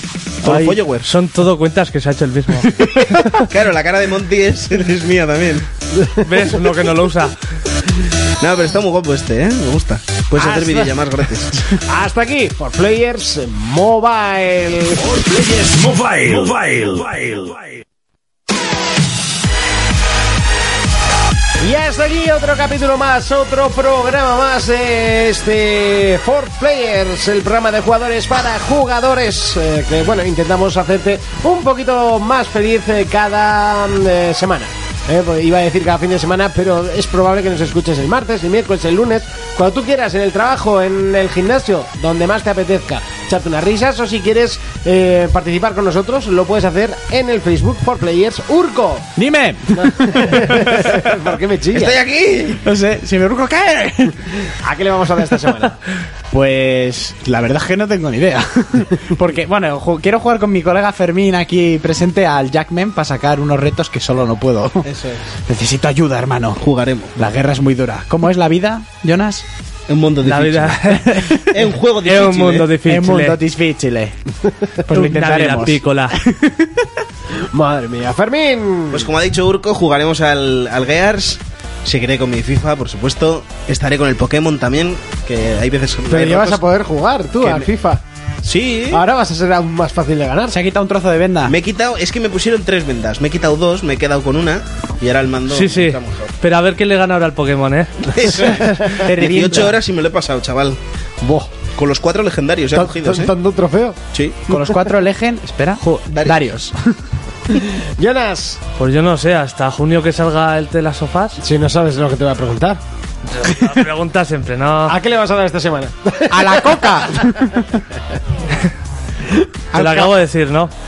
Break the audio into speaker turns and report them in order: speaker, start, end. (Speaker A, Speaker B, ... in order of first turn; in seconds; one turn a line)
Speaker A: 0.4-1.1
Speaker B: 0.4-3.3
Speaker A: 3.3-5.7
Speaker B: 6.2-7.4
Speaker A: 8.4-11.7
Speaker C: 10.4-10.9
Speaker C: 11.7-15.0
Speaker D: 15.0-17.6
Speaker C: 21.6-49.1
Speaker E: 49.2-51.1
Speaker C: 49.8-52.0
Speaker A: 51.7-52.6
Speaker E: 52.6-54.3
Speaker C: 54.5-55.8
Speaker E: 56.3-64.9
Speaker A: 64.8-65.2
Speaker E: 65.5-66.6
Speaker A: 66.6-67.1
Speaker E: 67.2-69.5
Speaker A: 69.9-70.8
Speaker B: 70.2-71.2
Speaker E: 70.9-71.7
Speaker A: 71.5-72.7
Speaker B: 72.0-73.4
Speaker E: 72.8-74.2
Speaker E: 74.8-76.9
Speaker B: 74.9-76.2
Speaker C: 77.5-79.1
Speaker A: 78.9-86.6
Speaker C: 86.1-88.0
Speaker A: 88.4-89.0
Speaker C: 88.9-90.6
Speaker E: 90.5-91.5
Speaker A: 91.5-96.3
Speaker B: 95.5-99.0
Speaker A: 98.1-100.8
Speaker C: 98.2-99.1
Speaker E: 99.0-99.8
Speaker C: 101.2-101.6
Speaker A: 101.7-103.3
Speaker C: 102.7-104.9
Speaker A: 104.1-104.5
Speaker E: 104.5-106.8
Speaker A: 106.1-106.4
Speaker C: 107.6-108.6
Speaker B: 108.8-111.4
Speaker C: 111.4-112.8
Speaker B: 113.3-115.0
Speaker C: 114.9-117.1
Speaker E: 116.3-117.8
Speaker E: 119.7-120.1
Speaker B: 119.7-120.7